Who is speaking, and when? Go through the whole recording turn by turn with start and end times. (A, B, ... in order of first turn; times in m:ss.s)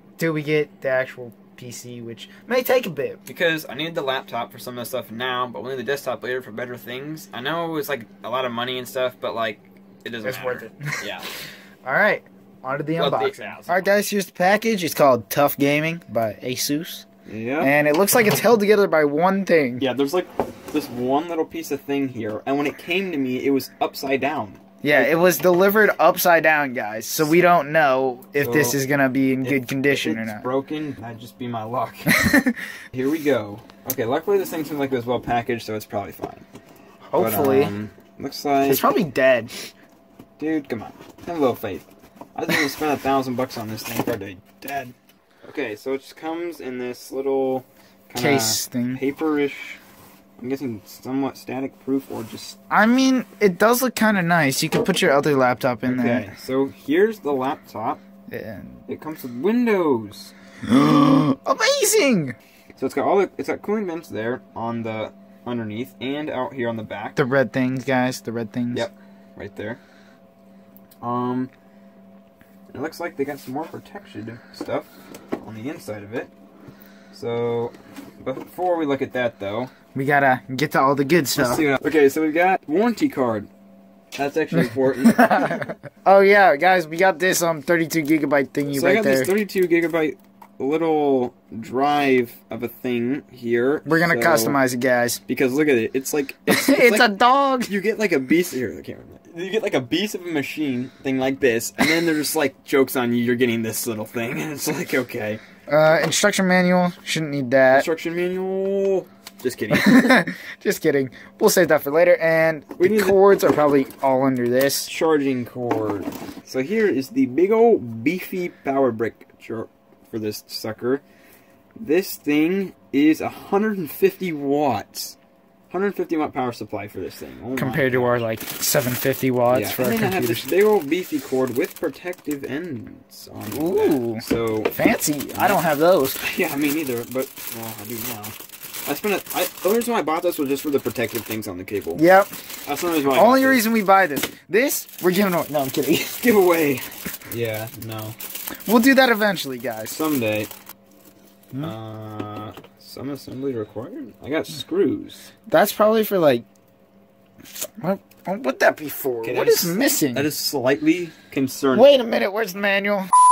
0:00.2-0:03.2 A
0:03.3-0:11.3 B
0:10.2-0:11.0 A
0:11.8-0:17.0 A
0:13.0-0:13.9 B
0:17.3-0:17.7 B
0:17.6-0:19.8 A
0:19.8-0:25.2 B
0:24.8-0:30.5 A
0:28.4-0:28.8 B
0:29.4-0:32.2 B
0:32.1-0:32.6 A
0:32.9-0:36.5 B
0:37.1-0:37.7 A
0:37.2-0:38.9 B
0:38.7-0:39.7 A
0:40.4-0:49.8 B
0:48.2-0:49.0 A
0:50.4-0:52.6 B
0:52.7-0:56.3 A
0:55.9-0:58.0 B
0:58.3-0:58.8 A
0:58.9-1:00.3 B
1:00.7-1:02.4 A
1:02.8-1:07.2 B
1:07.2-1:08.9 A
1:08.7-1:09.8 B
1:11.0-1:11.5 B
1:12.7-1:14.9 B
1:15.4-1:16.3 B
1:17.1-1:19.7 B
1:19.9-1:21.7 A
1:21.4-1:23.5 B
1:24.2-1:25.7 B
1:24.6-1:29.3 A
1:28.7-1:34.6 B
1:33.8-1:35.2 A
1:35.3-1:37.1 B
1:36.5-1:37.7 A
1:37.7-1:45.4 B
1:45.7-1:47.9 A
1:47.7-1:50.2 B
1:49.7-1:54.9 A
1:52.8-1:53.2 B
1:54.9-2:01.0 B
2:01.8-2:05.2 B
2:05.7-2:08.2 B
2:07.6-2:10.5 A
2:09.5-2:15.6 B
2:13.5-2:14.2 A
2:14.8-2:16.3 A
2:16.2-2:18.4 B
2:18.9-2:22.0 B
2:22.0-2:22.3 A
2:22.7-2:23.6 B
2:23.1-2:26.2 A
2:26.2-2:28.2 B
2:28.7-2:30.0 A
2:29.9-2:30.5 B
2:31.6-2:35.3 B
2:35.5-2:36.4 A
2:37.8-2:40.3 A
2:39.2-2:41.9 B
2:41.7-2:43.1 A